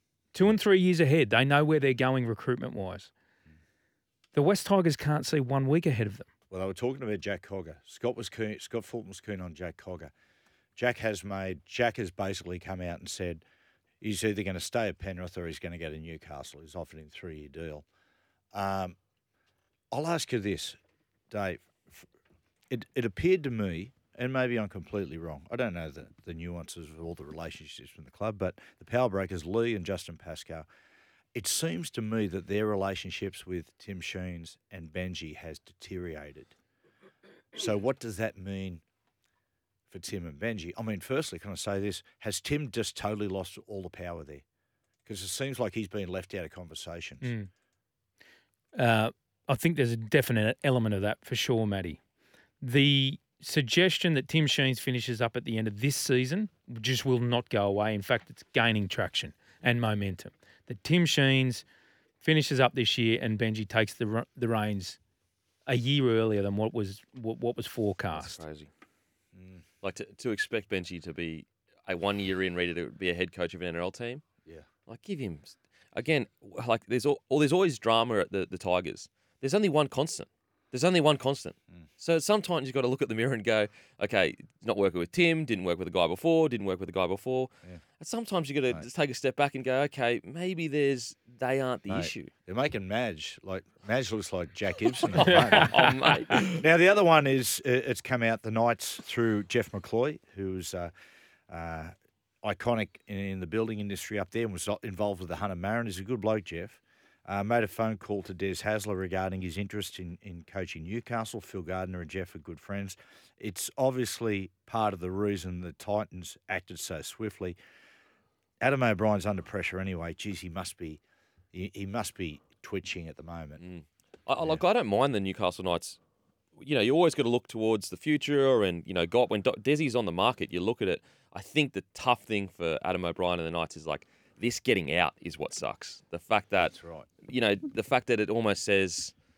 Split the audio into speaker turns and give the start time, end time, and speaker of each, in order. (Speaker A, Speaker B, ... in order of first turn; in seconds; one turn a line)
Speaker A: 0.3-3.1
Speaker A: 4.3-6.3
Speaker B: 6.5-10.1
Speaker B: 10.8-13.4
Speaker B: 14.0-17.9
Speaker B: 18.5-18.9
Speaker B: 19.9-20.8
Speaker B: 21.3-22.1
Speaker B: 22.7-30.7
Speaker B: 31.3-36.5
Speaker B: 37.5-38.8
Speaker B: 39.9-44.4
Speaker B: 45.0-47.3
Speaker A: 47.2-47.5
Speaker A: 48.7-52.0
Speaker A: 52.6-61.6
Speaker A: 62.2-65.0
Speaker A: 65.7-68.4
Speaker C: 68.1-68.7
Speaker B: 69.3-69.6
Speaker C: 69.8-74.2
Speaker C: 74.8-92.3
Speaker B: 91.9-100.9
Speaker C: 95.1-96.6
Speaker A: 95.3-95.9
Speaker B: 101.5-117.6
Speaker B: 118.6-121.0
Speaker B: 121.5-123.6
Speaker C: 123.6-126.0
Speaker C: 126.6-139.1
Speaker B: 136.7-137.1